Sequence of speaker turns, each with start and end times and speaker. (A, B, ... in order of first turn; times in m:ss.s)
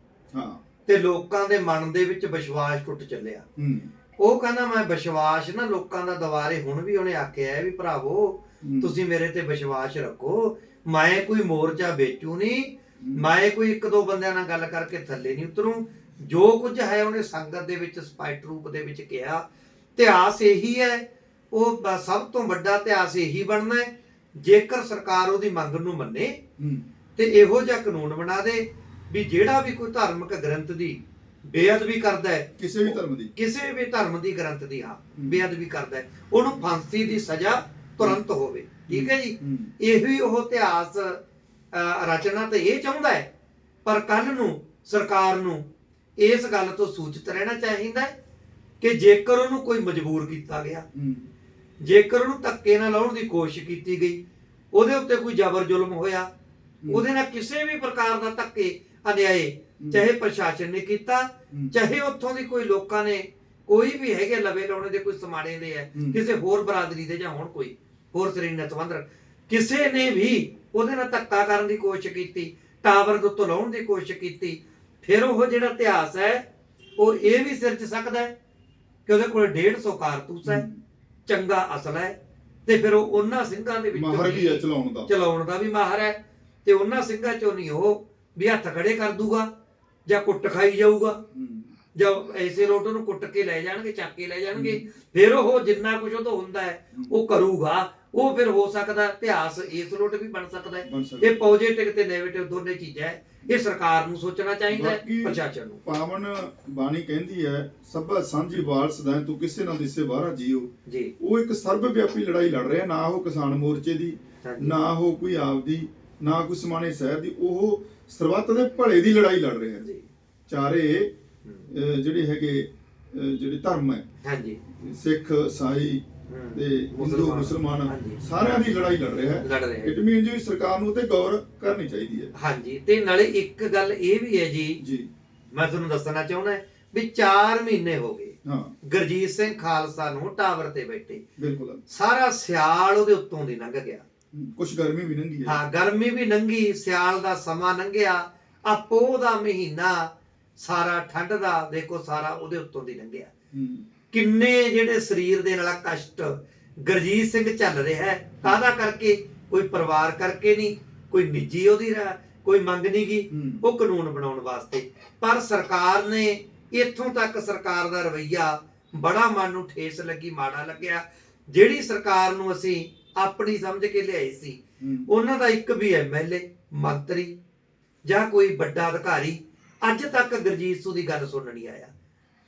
0:00.3-0:00.6 A
0:00.9-0:03.4 B
0:03.6-0:03.9 A
0:04.2-0:19.4 B
0:08.6-0:08.9 A
0:20.0-0:26.4 B
0:26.6-0:26.8 A
0:27.2-0:41.2 B
0:32.6-0:33.3 A
0:35.2-0:35.4 A
0:38.9-0:39.7 A
0:41.7-0:43.3 B
0:43.8-0:45.6 B
0:46.2-0:48.1 B
0:48.8-0:50.8 B
0:50.9-0:51.3 A
0:51.8-0:54.2 B
0:54.7-0:56.3 B
0:56.9-1:16.4 B
0:59.8-1:00.0 A
1:05.9-1:06.2 A
1:17.0-1:18.3 B
1:19.1-1:20.6 B
1:20.4-1:20.8 A
1:21.3-1:29.5 B
1:23.9-1:25.1 A
1:30.1-1:31.2 B
1:31.3-1:31.8 A
1:31.9-1:45.8 B
1:34.5-1:34.8 A
1:40.8-1:41.4 A
1:44.7-1:59.8 A
1:50.9-1:51.1 B
1:54.4-1:54.7 B
1:59.8-2:00.1 B
2:00.5-2:01.1 A
2:01.7-2:04.0 A
2:04.2-2:04.6 B
2:04.8-2:12.3 A
2:06.3-2:08.4 B
2:09.4-2:09.9 B
2:12.3-2:14.8 B
2:14.8-2:15.1 A
2:15.5-2:21.2 B
2:18.4-2:18.7 A
2:21.4-2:21.8 A
2:21.9-2:24.0 B
2:24.3-2:25.6 A
2:25.4-2:33.3 B
2:33.5-2:33.9 A
2:34.1-2:57.3 B
2:43.3-2:43.7 A
2:54.8-2:55.1 A
2:58.0-3:01.9 B